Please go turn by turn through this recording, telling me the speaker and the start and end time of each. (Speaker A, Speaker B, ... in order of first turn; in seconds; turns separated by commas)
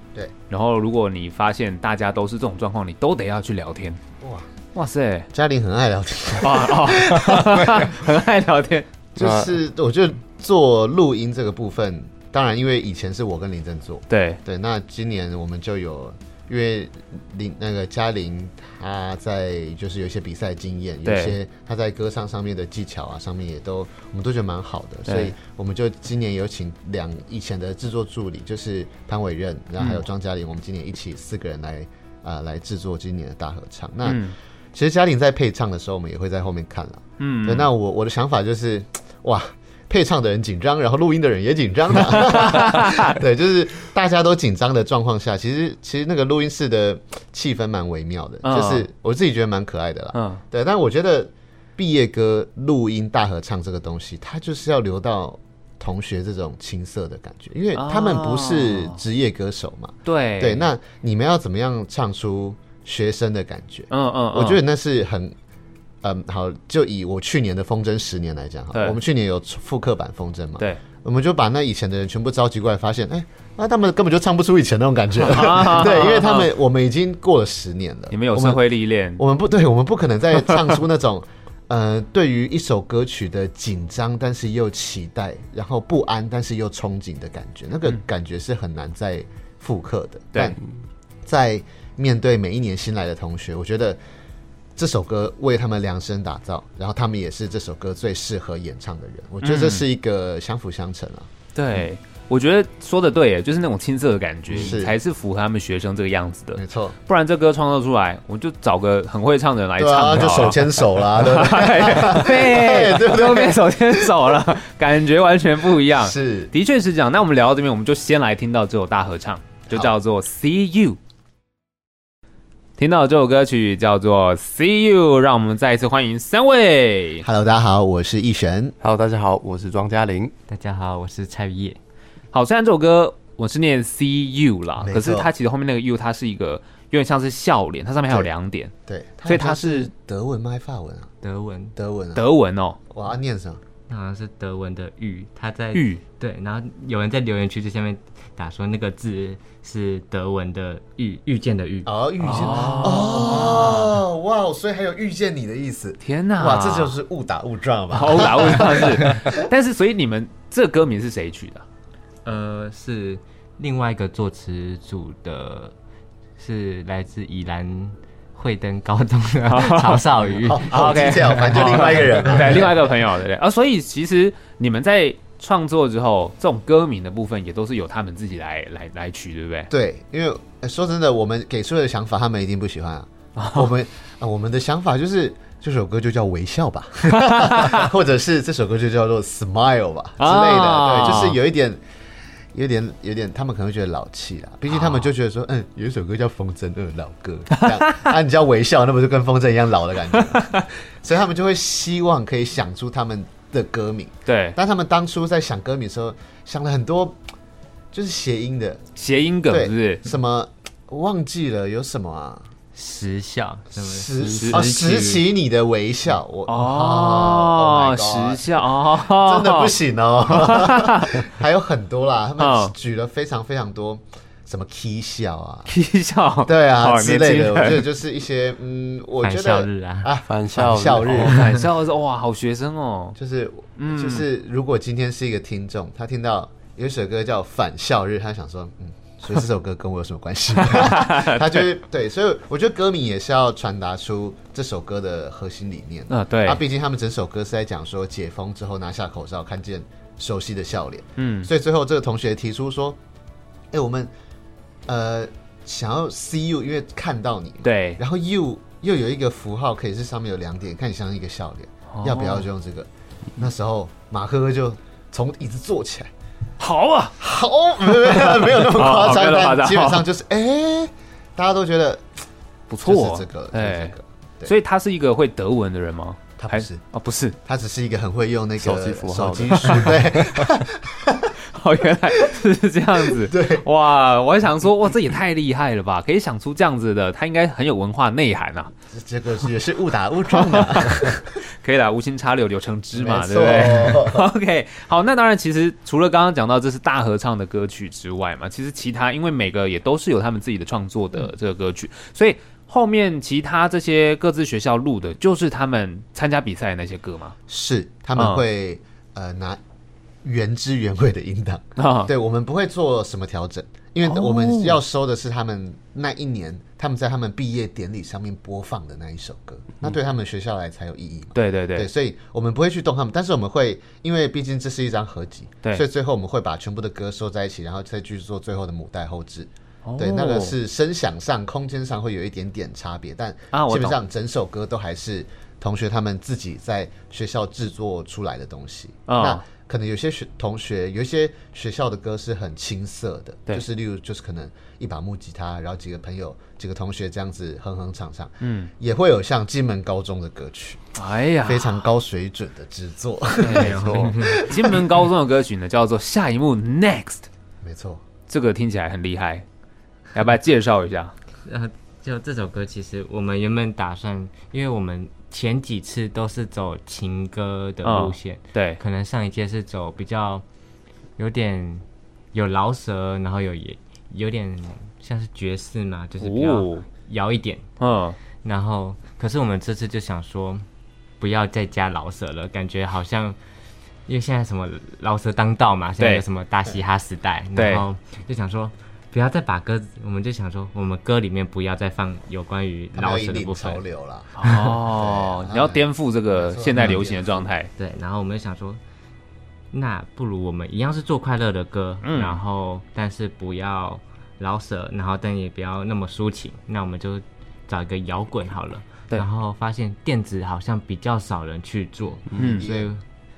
Speaker A: 0.5-4.0, Speaker B: 4.2-4.5, Speaker A: 4.8-5.3, Speaker B: 5.3-8.0, Speaker A: 6.4-8.9, Speaker B: 9.2-65.3, Speaker C: 9.2-9.6, Speaker A: 14.1-14.4, Speaker A: 21.1-21.4, Speaker A: 25.1-25.4, Speaker A: 29.8-30.1, Speaker A: 34.0-34.4, Speaker A: 37.2-37.7, Speaker A: 42.3-43.1, Speaker A: 48.4-48.9, Speaker A: 50.1-50.4, Speaker A: 57.8-59.0, Speaker A: 60.1-60.7, Speaker A: 63.9-64.6, Speaker B: 66.0-78.6, Speaker A: 68.7-69.0, Speaker A: 75.2-76.5, Speaker A: 78.1-79.2, Speaker B: 79.2-90.6, Speaker B: 91.2-94.0, Speaker B: 94.8-101.9, Speaker A: 99.4-99.8, Speaker A: 101.5-121.0, Speaker B: 104.5-105.0, Speaker B: 106.5-107.0, Speaker B: 109.8-114.4, Speaker B: 115.9-116.5, Speaker A: 122.8-127.3, Speaker B: 127.2-128.8, Speaker C: 128.8-130.3, Speaker D: 130.5-131.8, Speaker A: 132.3-138.7, Speaker B: 134.8-135.3, Speaker B: 138.9-141.1, Speaker A: 139.3-139.9, Speaker D: 141.2-141.8, Speaker B: 141.8-142.2, Speaker A: 142.2-142.8, Speaker B: 142.9-143.6, Speaker D: 143.9-153.5, Speaker A: 145.7-146.0, Speaker B: 151.9-159.4, Speaker A: 152.2-153.9, Speaker A: 156.0-157.0, Speaker A: 157.9-161.7, Speaker D: 162.2-165.7, Speaker D: 166.4-172.5, Speaker A: 169.5-170.1, Speaker B: 170.2-173.0, Speaker A: 170.7-179.7, Speaker B: 179.7-191.8, Speaker A: 183.4-183.7, Speaker A: 187.1-187.9, Speaker A: 190.2-191.4, Speaker B: 192.5-207.2, Speaker A: 194.7-195.1, Speaker A: 197.5-198.1, Speaker A: 200.2-200.7, Speaker A: 204.3-204.6, Speaker B: 207.9-208.8, Speaker A: 209.0-210.0, Speaker B: 209.5-212.5, Speaker D: 212.8-215.2, Speaker B: 213.8-225.7, Speaker A: 214.2-214.7, Speaker A: 216.5-221.3, Speaker A: 222.4-222.7, Speaker A: 225.7-227.9, Speaker B: 226.4-231.5, Speaker D: 229.2-230.1, Speaker C: 230.3-231.4, Speaker A: 231.1-233.2, Speaker B: 233.2-253.0, Speaker A: 233.8-234.3, Speaker A: 240.7-241.7, Speaker A: 246.1-246.6, Speaker A: 251.2-251.5, Speaker B: 253.7-254.1, Speaker B: 254.9-266.1, Speaker A: 257.6-258.0, Speaker A: 261.9-262.5, Speaker A: 266.6-267.2, Speaker B: 267.2-272.2, Speaker A: 268.0-270.1, Speaker A: 272.7-277.4, Speaker B: 272.9-274.5, Speaker B: 276.4-276.8, Speaker B: 277.4-281.4, Speaker C: 278.6-280.5, Speaker A: 281.5-288.7, Speaker B: 282.1-282.4, Speaker B: 282.9-283.7, Speaker B: 288.9-291.3, Speaker A: 290.3-307.4, Speaker B: 292.9-294.3, Speaker B: 307.5-309.6, Speaker A: 308.2-308.4, Speaker B: 310.2-350.9, Speaker A: 311.8-312.1, Speaker A: 314.1-314.8, Speaker A: 321.4-321.9, Speaker A: 329.9-330.6, Speaker A: 333.5-334.0, Speaker A: 339.1-339.4, Speaker A: 348.4-348.7, Speaker A: 351.0-351.8, Speaker B: 351.4-354.9, Speaker A: 353.4-357.3, Speaker D: 353.5-354.4, Speaker C: 353.6-354.1, Speaker B: 357.6-358.0, Speaker A: 358.3-359.4, Speaker A: 360.1-361.1, Speaker D: 361.4-370.4, Speaker A: 367.8-368.8, Speaker D: 371.2-377.7, Speaker A: 376.2-376.9, Speaker A: 377.8-378.2, Speaker D: 378.4-380.7, Speaker D: 381.2-383.4, Speaker D: 384.1-393.8, Speaker A: 387.6-387.8, Speaker B: 392.9-397.5, Speaker A: 394.4-397.7, Speaker D: 397.8-398.8, Speaker D: 399.7-413.0, Speaker A: 402.0-402.4, Speaker B: 412.3-412.9, Speaker A: 412.4-412.7